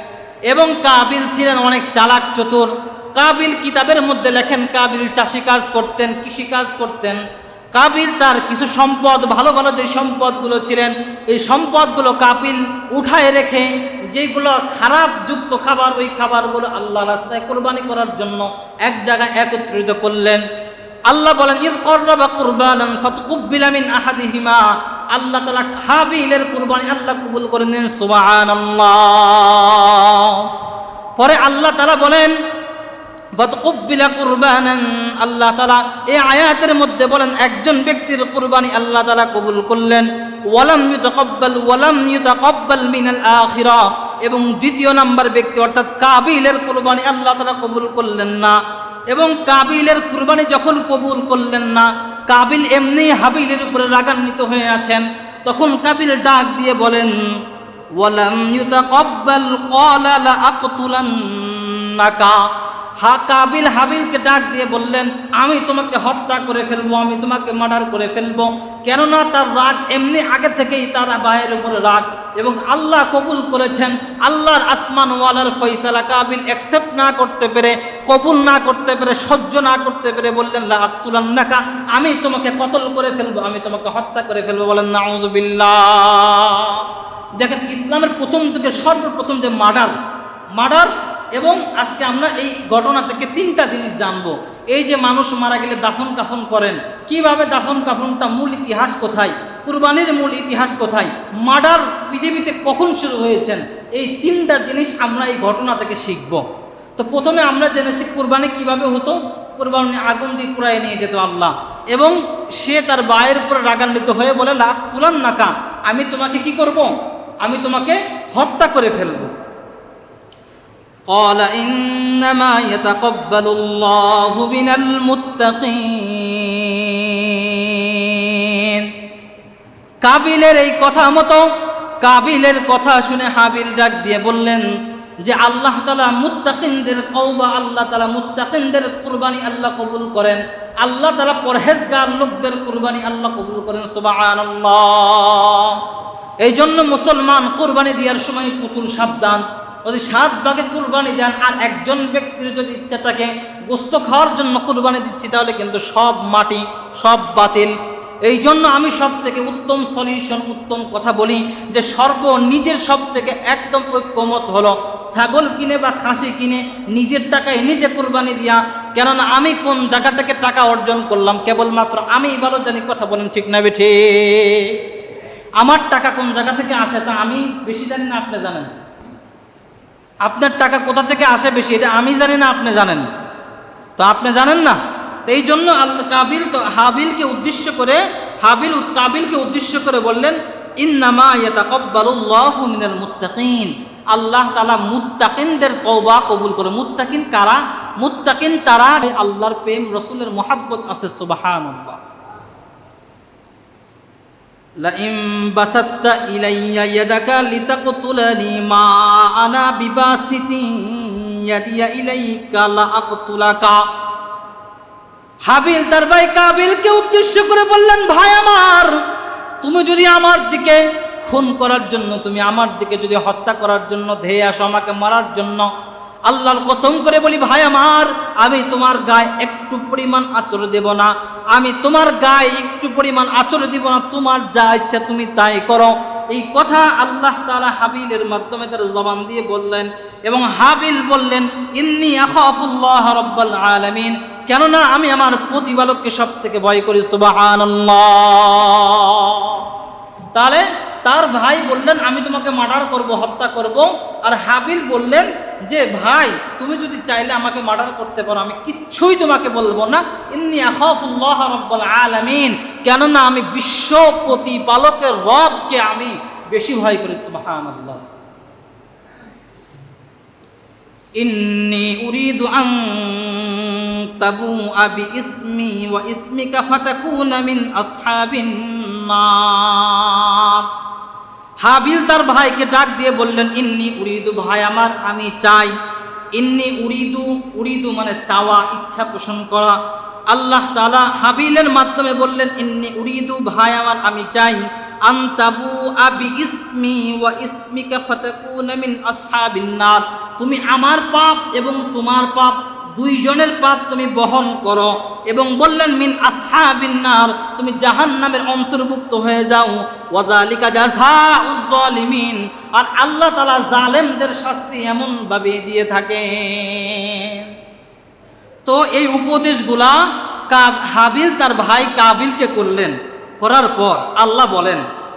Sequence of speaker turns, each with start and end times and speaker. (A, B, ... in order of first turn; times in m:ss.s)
0:00.5-0:07.2 A
0:07.7-0:20.4 A
0:21.1-0:30.5 A
0:31.2-0:32.4 A
0:33.4-0:48.6 A
0:49.1-0:57.2 A
0:58.0-1:02.5 A
1:03.0-1:30.0 A
1:30.6-1:46.4 A
1:47.0-1:59.3 A
2:01.1-2:08.9 A
2:10.0-2:11.5 A
2:12.0-2:14.7 A
2:15.2-2:25.8 A
2:26.4-2:54.8 A
2:55.6-2:58.7 A
3:00.2-3:03.0 A
3:04.0-3:22.0 A
3:24.8-3:33.8 A
3:35.5-3:39.0 A
3:39.6-3:45.7 A
3:46.3-4:09.7 A
4:10.3-4:28.0 A
4:31.2-4:40.7 A
4:41.6-4:45.7 A
4:46.3-5:17.5 A
5:18.6-5:24.8 A